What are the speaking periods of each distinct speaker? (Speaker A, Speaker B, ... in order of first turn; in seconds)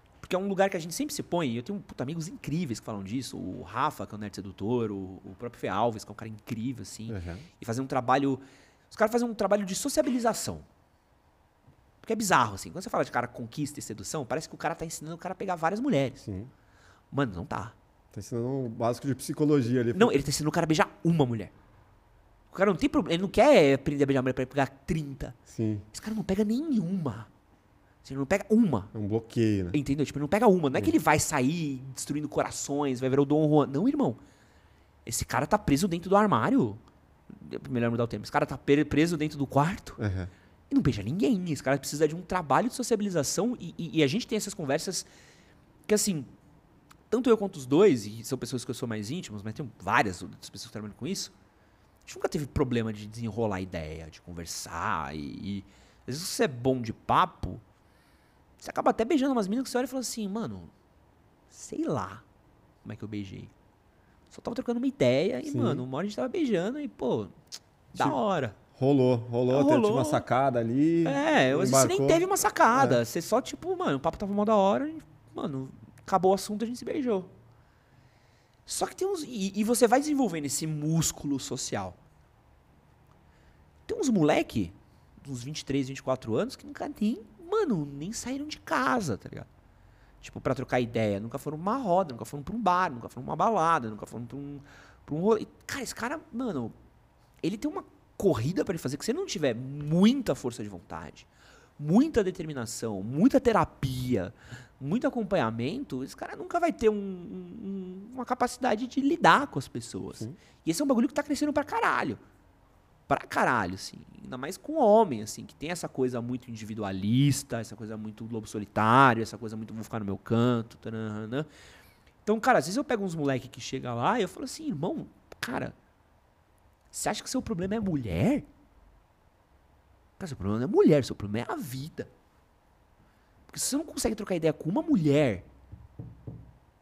Speaker A: 0.2-10.7, 12.0-16.2, 17.1-17.7, 19.9-21.5, 22.5-25.4, 25.9-27.3, 28.0-28.9, 29.7-34.2, 35.0-40.0, 40.7-45.1, 45.9-46.3, 47.1-51.3, 52.0-57.6, 58.6-60.7, 61.5-62.2, 62.8-63.5, 64.3-67.3, 67.9-68.5, 69.5-70.2, 71.0-77.3, 78.7-82.0, 83.9-89.5, 90.2-96.8, 97.4-112.2, 113.1-121.5, 122.2-125.8, 126.9-128.5, 130.2-132.1, 133.5-135.4
Speaker B: 7.1-7.5, 16.2-16.5, 18.1-20.2, 25.5-25.9, 28.9-29.8, 40.0-40.3, 65.5-65.8, 68.7-73.0